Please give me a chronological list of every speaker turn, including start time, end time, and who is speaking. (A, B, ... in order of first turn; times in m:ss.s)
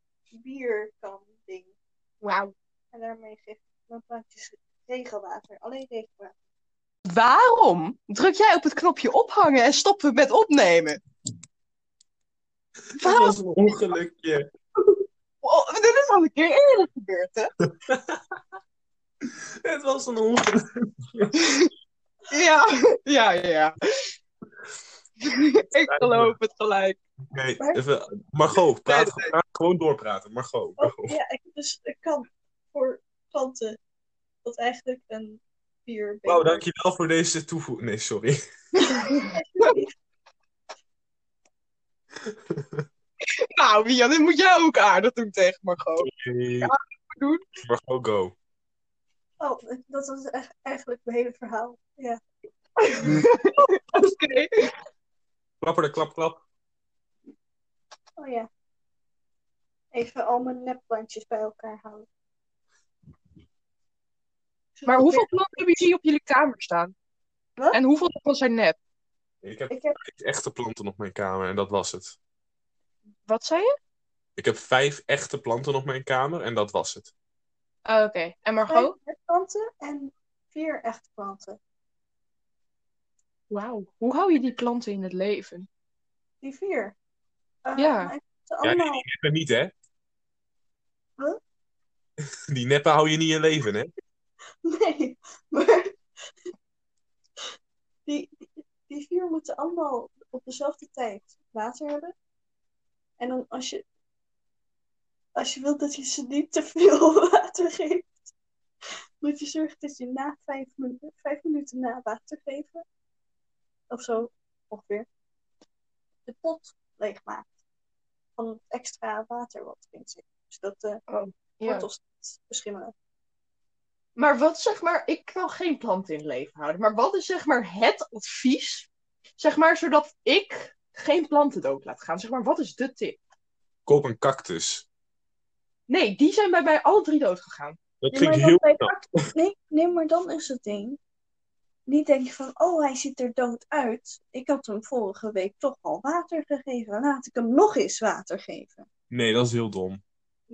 0:00.3-0:01.7 A
0:02.2-0:02.5 B
0:02.9-0:06.3 A
0:07.0-0:11.0 B
0:13.0-0:14.4 C
0:13.0-0:13.3 B
0:15.4-0:17.5 B
0:17.8-0:18.2 C
0:19.2-0:21.4 C
0:21.4-0:21.7 B
0:22.3-0:24.1 B
0:25.2-0:27.0 B
0:25.8-0:26.3 C
0:27.3-0:31.2 C
0:28.8-0:29.3 B
0:30.8-0:33.8 A
0:34.4-0:36.6 A
0:36.2-0:38.4 C
0:38.7-0:39.8 B
0:38.8-0:39.9 A
0:42.2-0:42.8 C
0:43.3-0:46.1 B
0:46.0-0:46.7 C
0:46.6-0:47.4 B
0:47.6-0:48.3 C
0:49.4-0:52.2 A
0:52.8-0:54.7 B
0:53.0-0:53.3 C
0:55.6-0:56.4 C
0:58.2-0:58.5 A
0:59.9-1:02.1 A
1:04.8-1:05.3 A
1:04.8-1:06.9 B
1:07.7-1:08.8 B
1:09.4-1:12.2 C
1:09.7-1:10.0 A
1:13.3-1:13.8 B
1:14.4-1:17.1 C
1:17.8-1:18.9 B
1:18.7-1:21.6 A
1:23.5-1:25.7 B
1:26.4-1:26.9 A
1:27.6-1:29.0 A
1:27.8-1:28.1 B
1:28.6-1:29.7 C
1:32.5-1:33.9 C
1:34.6-1:35.9 A
1:38.0-1:42.1 A
1:43.2-1:43.8 A
1:45.3-1:48.2 A
1:49.2-1:52.8 A
1:53.9-1:55.1 A
1:56.2-1:57.5 A
1:58.4-2:01.0 A
2:01.1-2:01.9 B
2:01.6-2:02.9 A
2:04.2-2:13.2 B
2:13.8-2:14.8 C
2:15.9-2:17.8 B
2:18.0-2:19.0 C
2:18.1-2:21.0 A
2:21.9-2:28.9 A
2:29.1-2:30.0 C